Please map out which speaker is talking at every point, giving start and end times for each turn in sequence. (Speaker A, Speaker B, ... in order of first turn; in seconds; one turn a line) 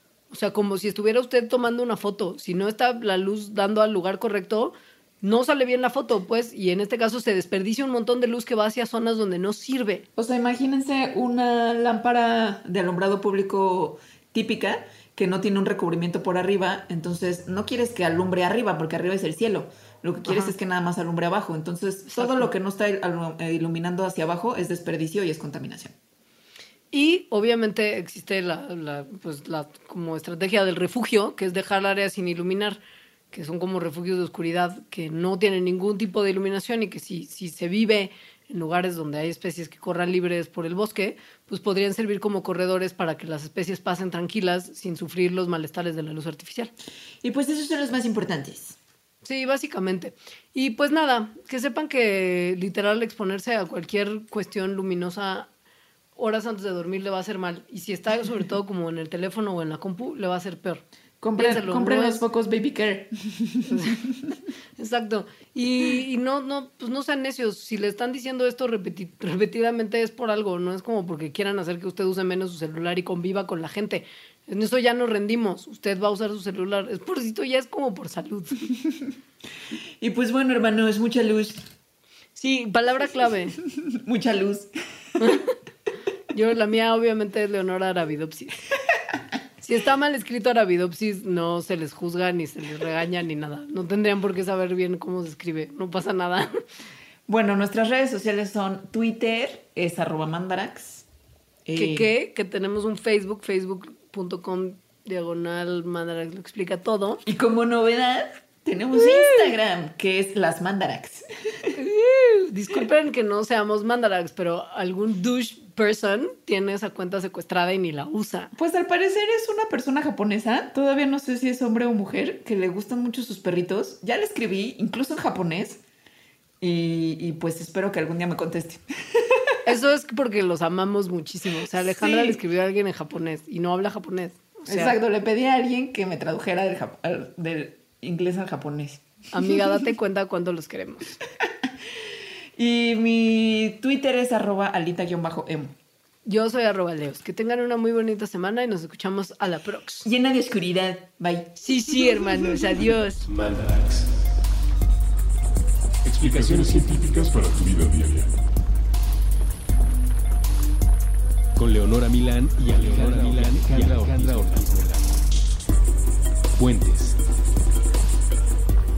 Speaker A: 0.3-10.1
Speaker B: 10.2-25.9
Speaker A: 20.3-20.5
Speaker A: 22.1-22.5
Speaker A: 26.9-32.8
Speaker A: 33.3-46.7
Speaker B: 47.2-48.8
Speaker A: 49.2-55.5
Speaker A: 56.2-60.8
Speaker B: 61.2-64.1
Speaker A: 61.4-62.2
Speaker A: 63.7-64.0
Speaker A: 64.8-78.7
Speaker B: 80.0-81.7
Speaker A: 82.4-83.6
Speaker B: 83.9-84.7
Speaker A: 85.2-85.5
Speaker A: 86.3-88.6
Speaker A: 89.6-96.5
Speaker B: 97.3-101.1
Speaker B: 101.7-102.1
Speaker A: 101.8-107.2
Speaker B: 107.2-111.3
Speaker A: 109.0-109.3
Speaker A: 111.8-118.5
Speaker B: 118.5-125.8
Speaker B: 126.6-129.5
Speaker A: 129.7-135.0
Speaker B: 131.8-132.4
Speaker B: 134.7-139.0
Speaker A: 139.3-141.2
Speaker B: 142.6-145.8
Speaker A: 146.3-150.1
Speaker B: 150.0-152.2
Speaker A: 151.6-153.3
Speaker C: 153.3-154.1
Speaker C: 156.1-157.1
Speaker D: 156.1-158.4
Speaker C: 161.6-165.0
Speaker D: 162.9-164.1
Speaker C: 166.6-167.2